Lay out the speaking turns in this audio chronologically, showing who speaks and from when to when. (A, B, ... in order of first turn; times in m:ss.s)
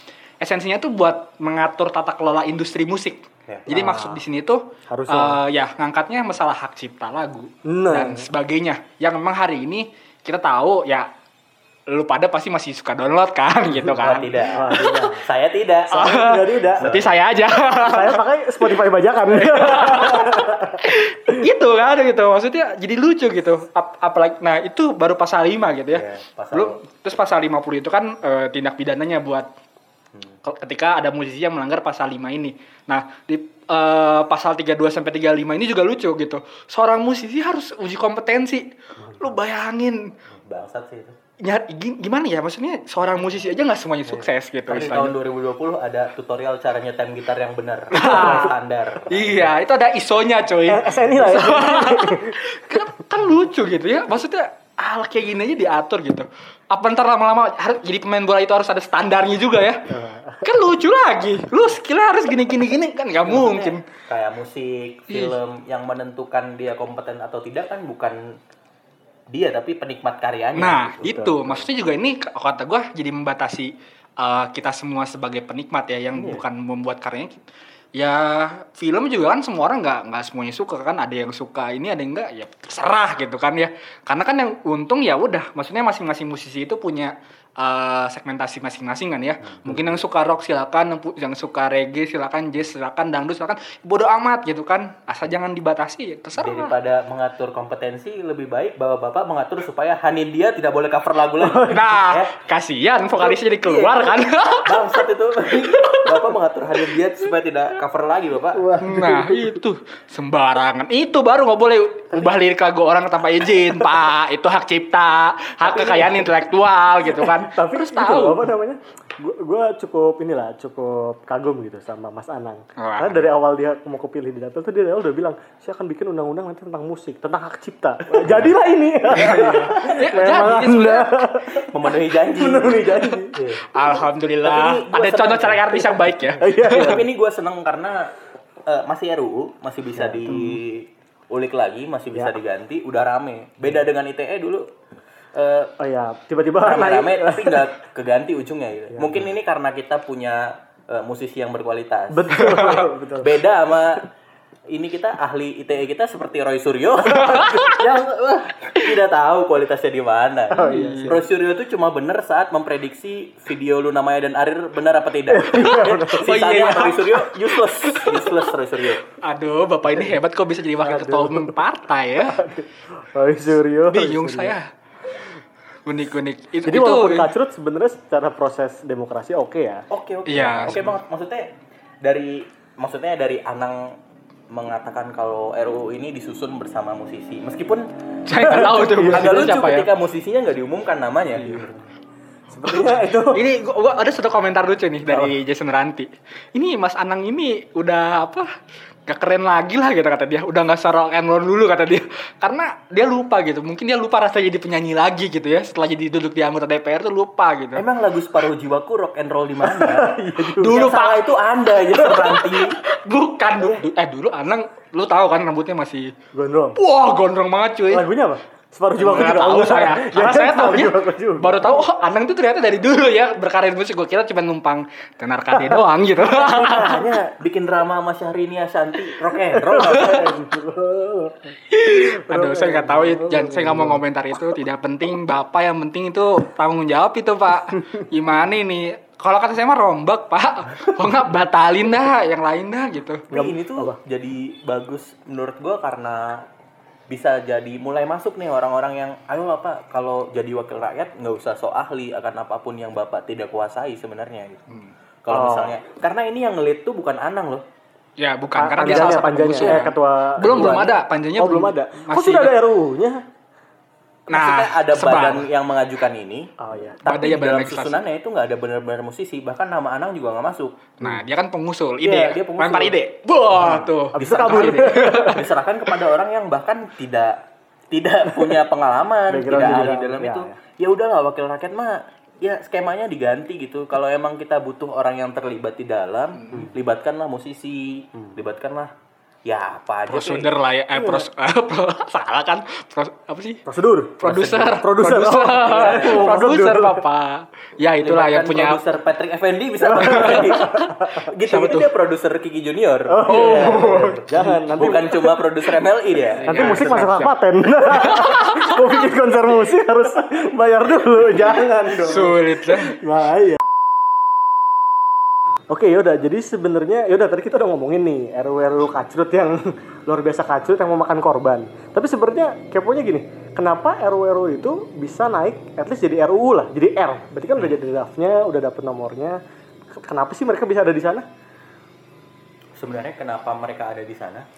0:00.4-0:11.1 A
0:03.4-0:04.2 B
0:04.9-0:05.4 C
0:07.6-0:08.3 C
0:11.9-0:14.8 A
0:14.0-0:16.1 B
0:14.5-0:15.3 C
0:15.9-0:16.8 C
0:15.9-0:18.2 A
0:16.8-0:17.1 B
0:17.8-0:21.4 C
0:19.3-0:29.5 A
0:25.9-0:26.8 B
0:30.4-0:40.1 A
0:40.3-0:41.2 B
0:41.4-0:45.1 A
0:44.7-0:49.5 B
0:47.9-0:48.5 A
0:47.9-0:48.5 C
0:49.1-0:59.8 A
0:50.7-0:52.8 C
0:59.9-1:00.5 C
1:00.4-1:03.8 A
1:03.2-1:08.3 B
1:05.1-1:05.4 A
1:09.3-1:11.0 B
1:10.6-1:17.4 A
1:11.0-1:11.6 C
1:16.1-1:16.4 B
1:18.0-1:36.7 A
1:29.4-1:29.9 B
1:36.4-1:42.3 B
1:41.4-1:41.9 C
1:41.7-1:46.3 A
1:43.2-1:44.2 C
1:44.6-1:48.7 B
1:48.5-1:49.6 C
1:48.8-1:58.4 A
1:55.7-1:56.3 C
1:57.0-2:13.4 C
2:02.8-2:03.3 A
2:08.1-2:08.5 B
2:09.1-2:11.2 A
2:09.3-2:09.5 B
2:11.5-2:13.7 B
2:13.7-2:17.0 A
2:14.4-2:18.1 B
2:16.4-2:17.0 C
2:18.6-2:24.6 B
2:20.0-2:20.5 C
2:25.3-2:25.7 B
2:25.8-2:27.7 C
2:26.6-2:34.1 B
2:32.1-2:33.3 C
2:32.4-2:32.7 A
2:34.7-2:49.0 B
2:37.1-2:37.8 A
2:40.5-2:41.2 C
2:40.6-2:41.2 A
2:45.3-2:46.3 C
2:45.6-2:47.3 A
2:47.8-2:48.2 A
2:49.1-2:52.4 A
2:50.8-2:51.6 C
2:52.2-2:54.5 C
2:53.9-2:54.7 A
2:55.8-2:57.3 A
2:56.6-2:59.8 C
2:59.9-3:01.5 B
3:00.3-3:00.9 A
3:02.0-3:04.0 B
3:04.5-3:07.9 B
3:08.2-3:09.9 A
3:08.4-3:09.4 C
3:08.4-3:11.8 B
3:11.4-3:11.6 A
3:12.5-3:13.4 C
3:13.3-3:18.5 A
3:15.0-3:15.3 C
3:19.0-3:27.8 A
3:27.8-3:32.8 B
3:29.6-3:30.9 C
3:30.6-3:31.3 A
3:31.9-3:32.4 C
3:32.9-3:36.1 A
3:36.3-3:36.8 C
3:36.8-3:38.0 A
3:37.9-3:41.8 C
3:39.0-3:47.0 A
3:45.5-3:45.8 C
3:46.2-3:50.4 B
3:49.2-3:51.5 C
3:51.7-4:03.2 A
3:52.1-3:54.0 C
4:03.3-4:04.0 C
4:03.3-4:06.4 B
4:07.1-4:14.6 B
4:15.2-4:17.6 B
4:15.3-4:15.8 C
4:18.2-4:22.6 A
4:18.5-4:23.2 C
4:20.5-4:20.8 B
4:24.3-4:25.4 A
4:24.3-4:26.5 B
4:26.6-4:27.0 C
4:27.0-4:30.9 B
4:27.0-4:28.0 A
4:31.0-4:35.4 A
4:32.0-4:33.0 B
4:33.6-4:37.4 B
4:33.7-4:35.4 C
4:37.9-4:48.9 B
4:39.3-4:40.6 C
4:49.4-4:50.5 B
4:50.1-4:53.6 A
4:50.9-4:51.2 C
4:53.6-4:57.0 C
4:54.2-4:58.8 A
4:55.6-4:56.3 B
4:57.9-5:06.9 B
4:59.8-5:01.3 C
5:00.0-5:00.9 A
5:01.5-5:01.9 A
5:03.1-5:05.6 C
5:03.3-5:04.6 A
5:06.4-5:07.4 A
5:06.4-5:13.7 C
5:07.9-5:08.8 A
5:11.9-5:12.9 A
5:15.7-5:31.3 C
5:32.8-5:34.5 B